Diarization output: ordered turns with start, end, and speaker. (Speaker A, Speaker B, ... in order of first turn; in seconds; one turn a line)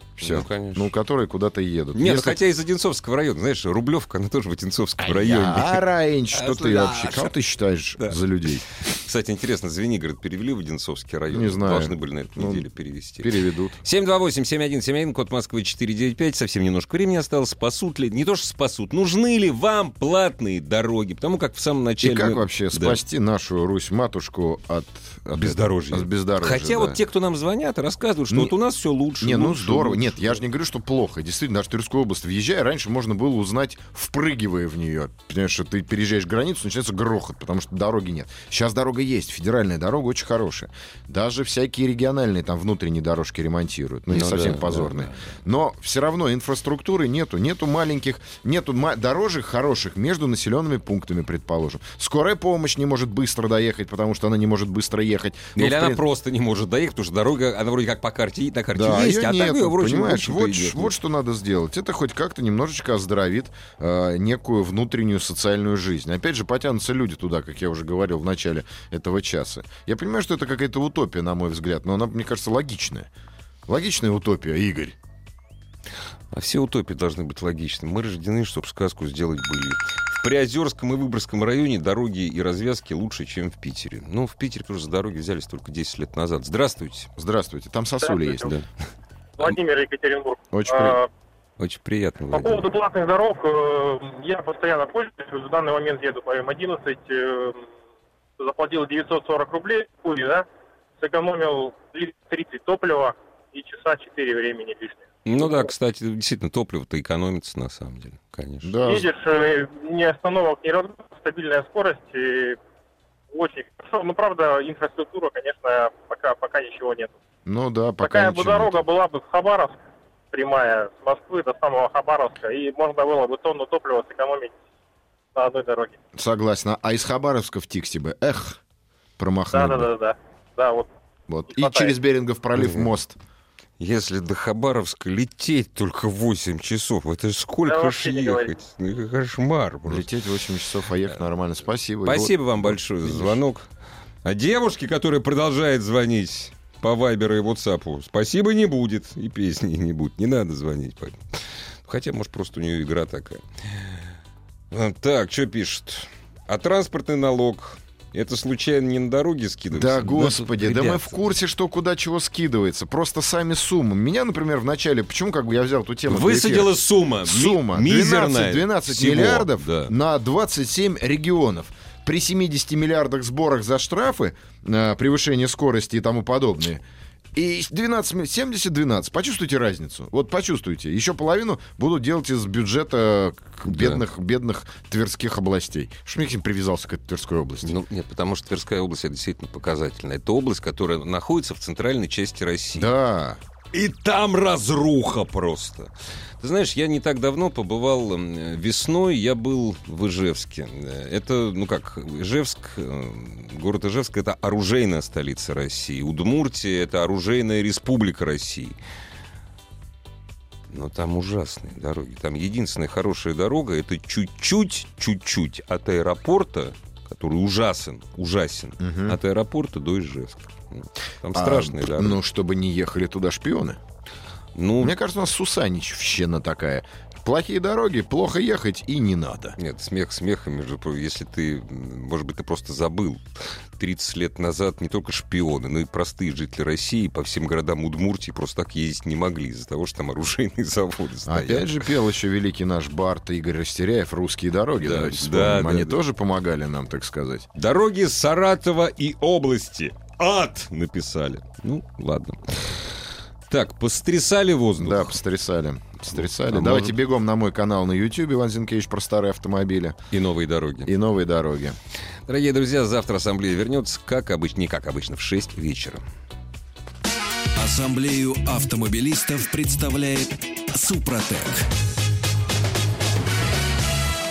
Speaker A: 0.2-2.4
Speaker B: 0.2-0.9
Speaker B: 1.9-7.3
Speaker A: 5.0-8.7
Speaker B: 8.8-13.3
Speaker A: 11.3-12.7
Speaker A: 13.2-13.8
Speaker B: 13.8-23.0
Speaker A: 22.0-27.0
Speaker B: 25.4-30.4
Speaker A: 29.2-56.0
Speaker B: 44.1-45.2
Speaker B: 55.6-60.9
Speaker A: 58.7-73.1
Speaker A: 73.7-75.0
Speaker B: 76.3-87.1
Speaker A: 87.2-88.5
Speaker C: 88.0-88.4
Speaker C: 89.4-91.1
Speaker A: 90.5-91.0
Speaker B: 91.6-92.6
Speaker C: 92.3-97.7
Speaker C: 98.4-100.5
Speaker C: 101.0-105.7
Speaker B: 105.2-108.8
Speaker A: 108.6-109.1
Speaker C: 108.8-112.6
Speaker C: 113.3-117.2
Speaker A: 117.5-118.8
Speaker C: 118.0-119.8
Speaker C: 120.3-124.6
Speaker C: 125.3-126.0
Speaker A: 126.2-128.6
Speaker A: 129.2-129.9
Speaker C: 129.5-130.9
Speaker A: 131.3-133.2
Speaker C: 131.5-131.9
Speaker B: 132.6-132.9
Speaker B: 133.8-140.1
Speaker C: 137.7-138.5
Speaker A: 139.8-143.4
Speaker B: 142.1-143.7
Speaker B: 144.2-154.0
Speaker B: 154.7-161.1
Speaker A: 159.7-166.7
Speaker B: 166.1-169.9
Speaker A: 167.2-176.8
Speaker A: 177.3-187.7
Speaker B: 183.7-184.0
Speaker B: 187.6-192.9
Speaker A: 192.8-193.4
Speaker B: 193.7-208.8
Speaker B: 210.7-222.2
Speaker A: 218.8-219.2
Speaker A: 221.3-223.8
Speaker B: 224.6-224.9
Speaker A: 224.8-229.6
Speaker B: 229.6-241.8
Speaker A: 241.3-247.5
Speaker B: 244.8-246.0
Speaker B: 247.6-252.9
Speaker B: 253.5-255.2
Speaker A: 254.8-260.0
Speaker B: 256.1-257.0
Speaker B: 260.1-260.9
Speaker A: 260.9-261.8
Speaker B: 262.3-266.0
Speaker D: 267.6-271.7